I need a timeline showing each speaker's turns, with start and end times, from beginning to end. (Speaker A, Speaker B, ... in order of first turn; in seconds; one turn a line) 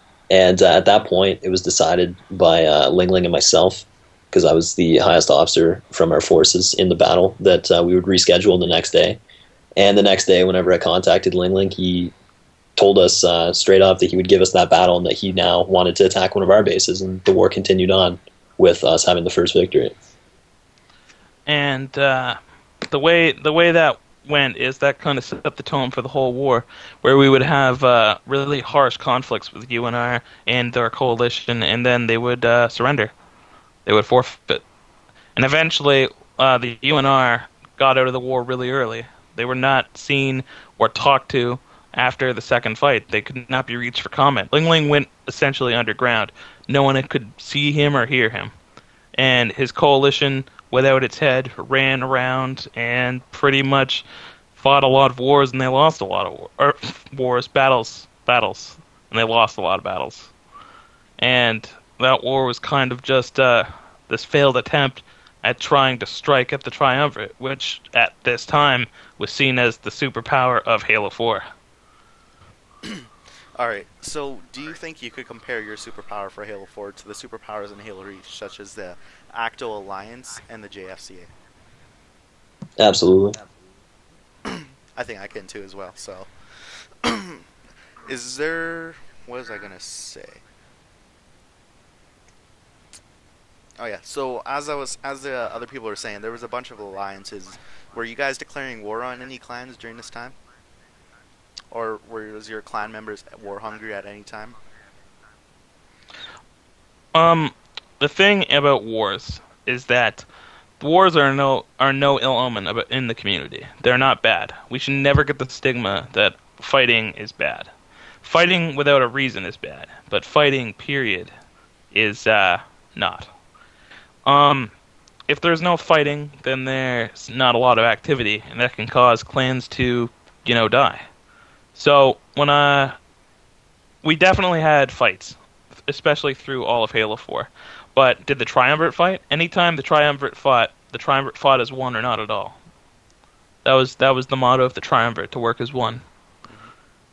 Speaker A: 0.3-9.2
Speaker A: 9.8-12.1
Speaker A: 12.8-19.9
Speaker B: 21.4-22.4
Speaker B: 22.9-33.1
Speaker B: 33.9-34.6
Speaker B: 35.4-48.5
Speaker B: 49.1-54.0
Speaker B: 54.5-60.3
Speaker B: 61.2-71.5
Speaker C: 72.8-81.3
Speaker A: 82.8-83.4
Speaker C: 84.4-86.3
Speaker C: 87.0-87.5
Speaker C: 88.1-90.4
Speaker C: 93.8-100.3
Speaker C: 101.7-104.6
Speaker B: 107.1-110.2
Speaker B: 110.8-117.7
Speaker B: 118.2-121.3
Speaker B: 121.9-123.3
Speaker B: 124.2-124.7
Speaker B: 125.3-131.1
Speaker B: 131.7-133.0
Speaker B: 134.0-142.6
Speaker B: 143.6-146.0